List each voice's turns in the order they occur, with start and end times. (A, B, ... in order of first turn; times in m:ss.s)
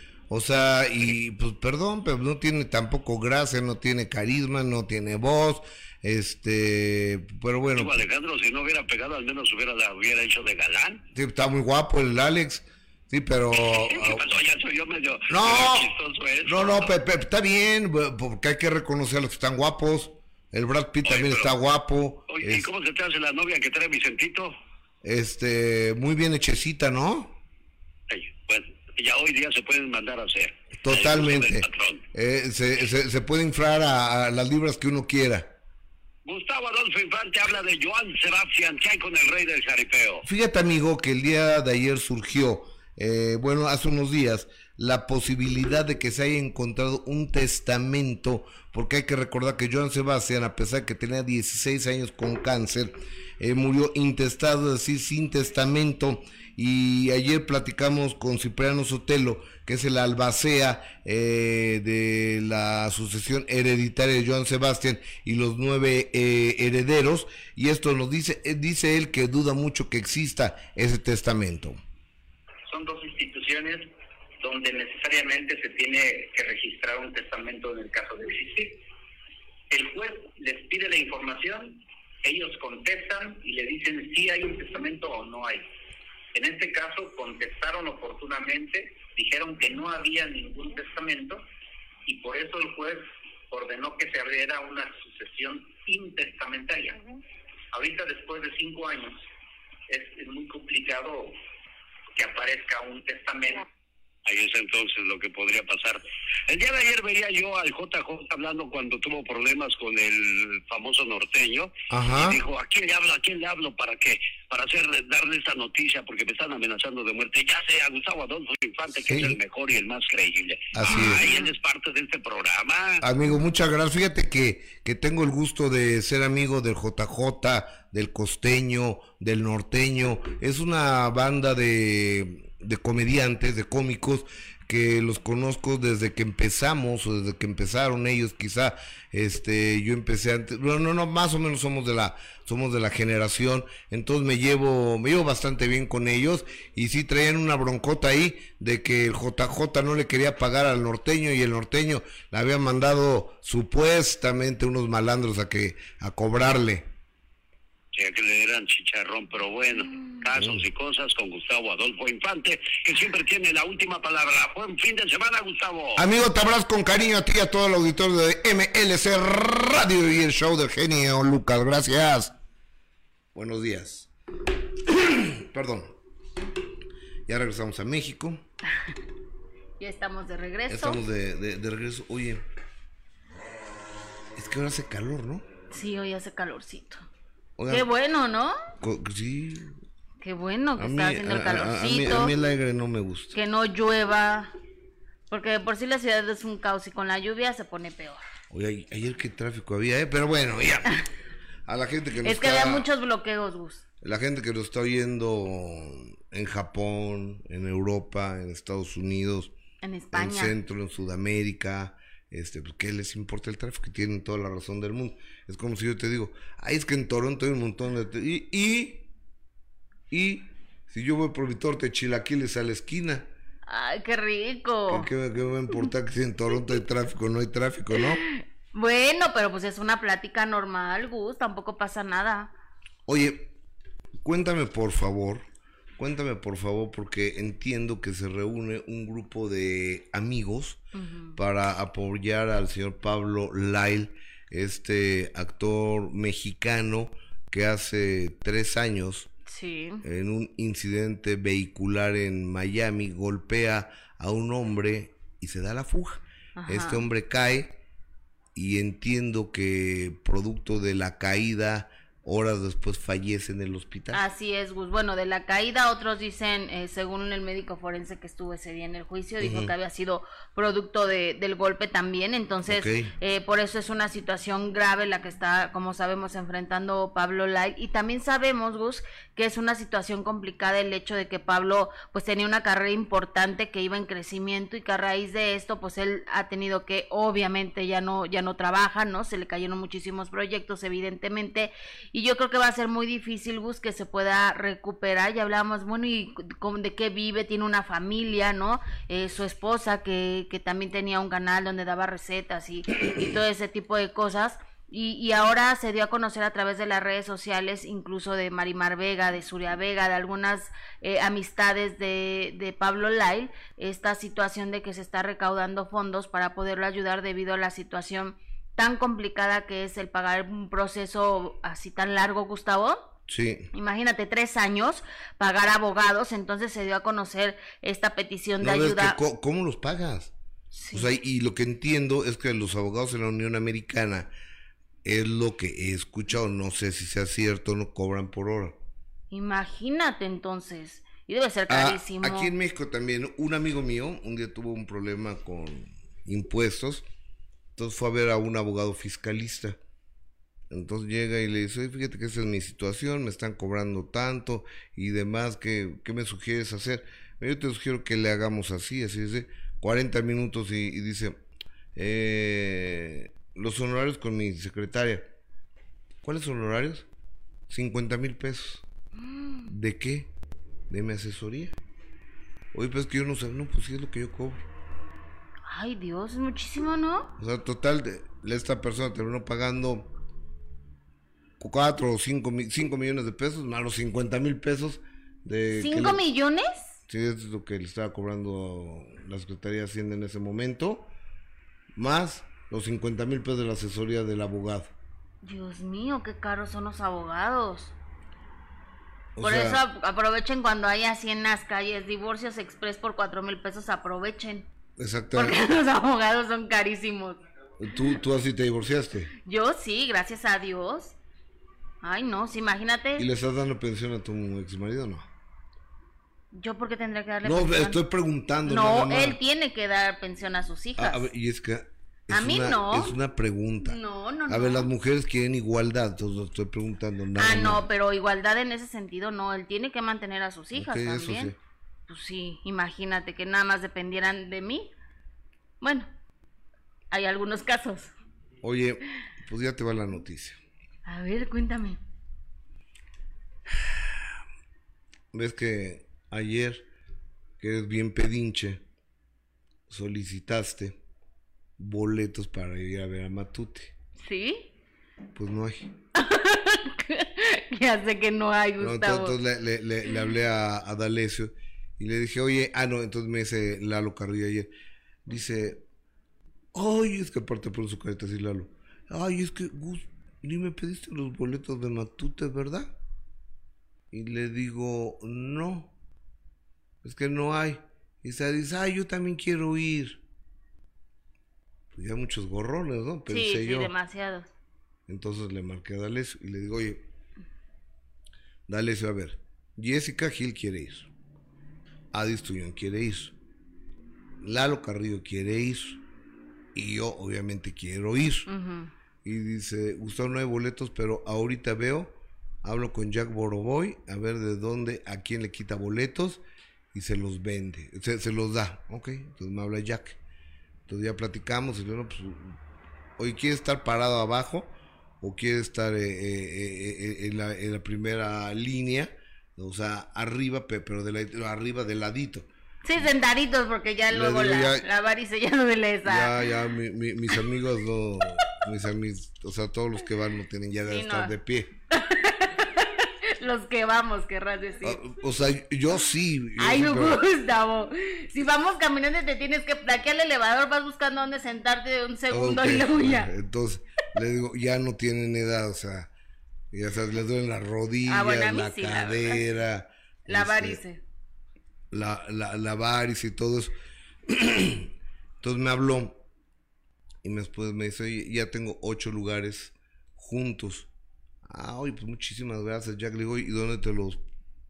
0:00.3-0:08.0 A
0:07.8-0:11.0 B
0:11.1-0:14.2 A
0:13.6-0:16.9 B
0:15.3-0:15.9 A
0:16.4-0:22.7 A
0:21.0-0:21.5 B
0:22.3-0:24.5 B
0:25.0-0:27.4 A
0:28.1-0:32.0 B
0:30.8-0:35.5 A
0:36.2-0:40.2 B
0:40.2-1:11.8 A
1:12.7-1:18.8 C
1:19.7-1:25.7 C
1:26.3-1:31.4 C
1:32.1-1:37.0 C
1:37.7-1:39.2 C
1:39.9-1:41.4 C
1:42.1-1:43.7 C
1:44.3-2:03.0 B
1:51.9-1:52.4 A
1:59.0-1:59.4 A
2:00.7-2:01.3 A
2:03.0-2:36.9 A
2:37.9-2:46.0 B
2:40.4-2:40.6 A
2:46.0-2:52.3 A
2:53.3-2:54.1 A
2:54.9-2:56.0 A
2:57.3-2:58.4 A
2:59.8-3:01.0 D
3:00.7-3:02.5 A
3:04.4-3:05.4 A
3:05.7-3:07.1 D
3:07.6-3:07.9 A
3:07.7-3:08.6 D
3:08.8-3:09.8 A
3:10.2-3:12.3 D
3:10.8-3:13.4 A
3:13.3-3:14.5 D
3:15.3-3:18.2 D
3:18.5-3:21.0 A
3:21.7-3:22.9 A
3:22.2-3:23.8 D
3:24.0-3:29.5 A
3:29.8-3:30.6 D
3:30.1-3:39.1 A
3:40.1-3:43.3 A
3:43.7-3:45.1 D
3:44.9-3:48.2 A
3:48.0-3:52.5 D
3:53.1-3:53.6 A
3:54.2-3:55.5 A
3:56.0-4:00.8 A
4:00.9-4:01.4 D
4:01.4-4:09.3 A
4:09.5-4:10.0 D
4:10.0-4:17.8 A
4:16.6-4:17.0 D
4:18.6-4:24.2 A
4:24.1-5:23.1 D
4:29.4-4:29.7 A
4:32.7-4:33.1 A
5:23.3-5:23.7 A
5:23.7-5:29.2 D
5:28.6-5:30.3 A
5:30.7-5:31.1 D
5:30.9-5:34.3 A
5:35.0-5:38.8 A
5:39.3-5:42.5 D
5:41.7-5:47.1 A
5:47.8-5:49.8 A
5:50.7-6:01.4 A
6:02.0-6:05.3 A
6:06.2-6:07.1 A
6:07.7-6:08.8 A
6:09.2-6:09.7 D
6:09.7-6:10.3 A
6:10.9-6:11.8 A
6:12.7-6:14.6 A
6:15.7-6:17.3 D
6:17.4-6:20.1 A
6:21.6-6:26.2 A
6:25.8-6:27.0 D
6:27.1-6:31.1 A
6:31.9-6:34.9 A
6:35.4-6:37.9 D
6:39.4-6:39.8 A
6:39.4-6:44.7 D
6:45.0-6:45.8 A
6:45.3-6:47.4 D
6:47.8-6:49.3 A
6:49.4-6:51.2 D
6:52.0-6:53.3 D
6:53.2-6:55.3 A
6:56.5-6:58.0 D
6:57.4-6:59.4 A
6:58.6-7:01.3 D
7:01.0-7:07.9 A
7:02.3-7:03.2 D
7:03.8-7:04.9 D
7:07.4-7:11.5 D
7:10.7-7:11.6 A
7:12.1-7:14.9 D
7:15.8-7:16.1 D
7:17.1-7:18.1 D
7:18.6-7:20.6 A
7:21.1-7:22.0 D
7:23.8-7:24.2 A
7:25.3-7:26.9 A
7:27.6-7:28.8 A
7:29.9-7:31.0 A
7:31.8-7:33.9 A
7:34.2-7:34.7 D
7:35.4-7:35.9 A
7:36.2-7:39.4 D
7:38.8-7:44.7 A
7:45.3-7:45.8 A
7:46.7-7:52.9 A
7:54.1-7:55.9 A
7:57.0-8:00.2 A
8:01.9-8:03.9 A
8:03.3-8:04.5 D
8:05.1-8:07.0 A
8:08.7-8:11.1 A
8:12.1-8:13.4 A
8:14.4-8:16.0 A
8:16.7-8:18.5 A
8:18.5-8:18.9 D
8:19.2-8:30.2 A
8:30.9-8:32.6 A
8:33.2-8:42.5 A
8:42.8-8:46.4 D
8:44.1-8:44.9 A
8:46.0-8:51.7 A
8:50.9-8:51.4 D
8:51.9-8:55.0 D
8:54.8-8:57.2 A
8:56.6-9:03.3 D
9:02.3-9:06.1 A
9:06.7-9:10.8 A
9:08.1-9:09.5 D
9:10.3-9:11.0 D
9:11.9-9:13.8 A
9:14.3-9:16.2 A
9:17.2-9:20.9 A
9:21.4-9:24.2 A